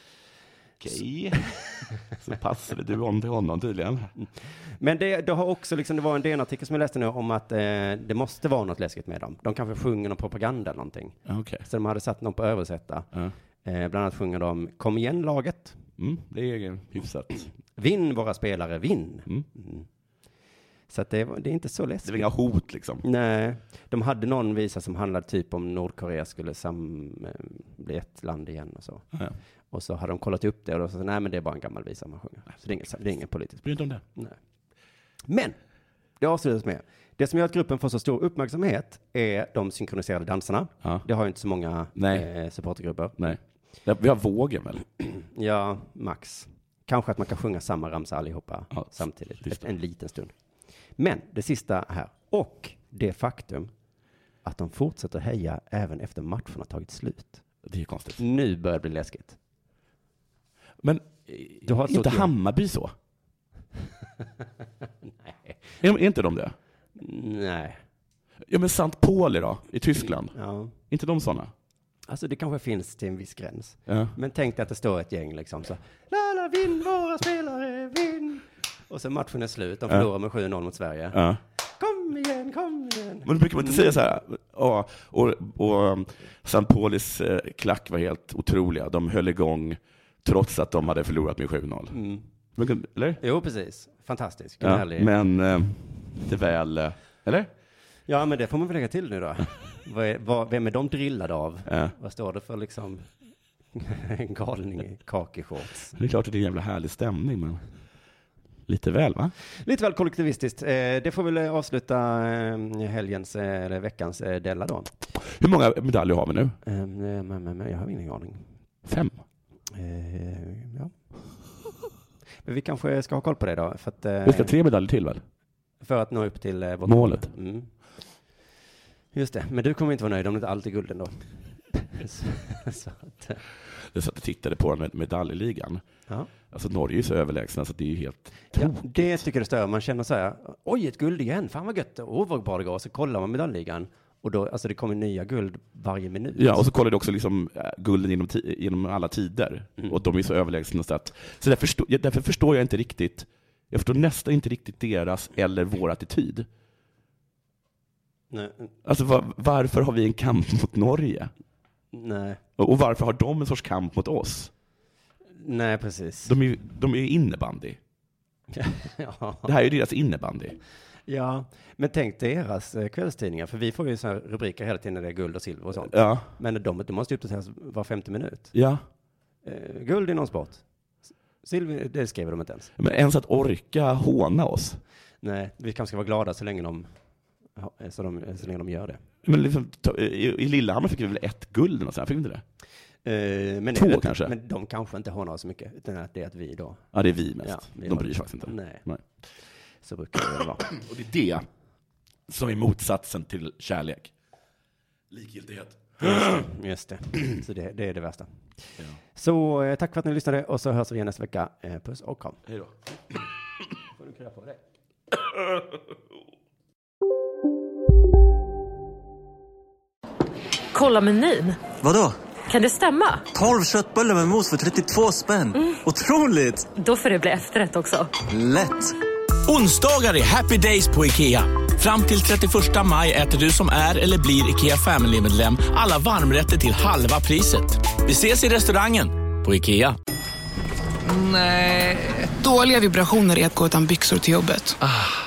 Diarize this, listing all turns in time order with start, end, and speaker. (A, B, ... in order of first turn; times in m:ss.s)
0:00.8-0:04.1 A
0:04.2-0:13.1 B
0:11.3-0:11.7 A
0:13.6-0:15.8 B
0:16.0-0:17.5 A
0:17.8-0:19.9 B
0:20.9-0:22.3 B
0:22.0-0:23.0 A
0:23.0-0:29.0 B
0:29.7-0:33.6 B
0:33.6-0:34.0 A
0:35.3-0:35.6 B
0:36.2-0:43.3 B
0:42.0-0:42.3 A
0:43.2-0:44.8 A
0:45.1-0:50.3 B
0:51.0-0:53.7 B
0:54.4-0:57.4 B
0:57.6-0:58.2 A
0:58.2-0:59.4 B
1:00.8-1:02.9 A
1:01.6-1:02.3 B
1:05.2-1:05.6 B
1:05.8-1:06.6 A
1:07.0-1:07.8 B
1:08.5-1:10.4 A
1:10.3-1:10.7 B
1:10.9-1:11.5 A
1:12.1-1:21.2 B
1:13.9-1:14.1 A
1:21.1-1:21.4 A
1:21.8-1:24.0 B
1:23.2-1:32.0 A
1:31.9-1:32.2 B
1:32.6-1:33.2 A
1:33.2-1:35.1 B
1:34.6-1:37.5 A
1:38.1-1:43.0 B
1:41.7-1:41.9 A
1:43.7-1:45.9 B
1:46.0-1:47.6 A
1:48.7-1:49.3 A
1:49.6-1:54.9 B
1:55.2-1:56.6 A
1:56.6-1:58.5 B
1:58.9-1:59.2 A
1:59.7-2:00.9 B
2:02.4-2:04.5 B
2:04.2-2:05.2 A
2:05.8-2:07.7 B
2:06.9-2:07.3 A
2:09.1-2:13.4 B
2:13.9-2:15.8 A
2:16.5-2:19.1 A
2:18.6-2:26.7 B
2:26.4-2:36.4 A
2:38.3-2:38.7 B
2:38.8-2:41.3 A
2:41.9-2:42.4 B
2:42.6-2:44.5 A
2:45.4-2:46.3 B
2:46.2-2:47.8 A
2:48.5-2:49.5 B
2:49.4-2:50.6 A
2:51.1-2:58.5 B
2:55.9-2:56.3 A
2:58.5-2:58.8 A
2:59.4-3:00.6 B
3:01.4-3:02.7 B
3:02.8-3:04.8 A
3:05.2-3:06.9 B
3:07.6-3:09.0 B
3:09.2-3:12.4 A
3:13.0-3:16.8 B
3:13.7-3:14.3 A
3:16.9-3:19.0 A
3:17.4-3:18.8 B
3:19.8-3:20.7 B
3:20.7-3:21.4 A
3:22.3-3:24.1 A
3:25.1-3:26.4 A
3:26.0-3:28.3 B
3:29.1-3:32.4 B
3:34.0-3:34.6 B
3:40.7-3:41.5 C
3:41.7-3:42.2 D
3:42.5-3:43.2 C
3:43.3-3:46.8 D
3:46.8-3:48.0 C
3:48.2-3:48.9 D
3:49.4-4:00.0 E
4:01.1-4:02.2 E
4:02.3-4:04.8 F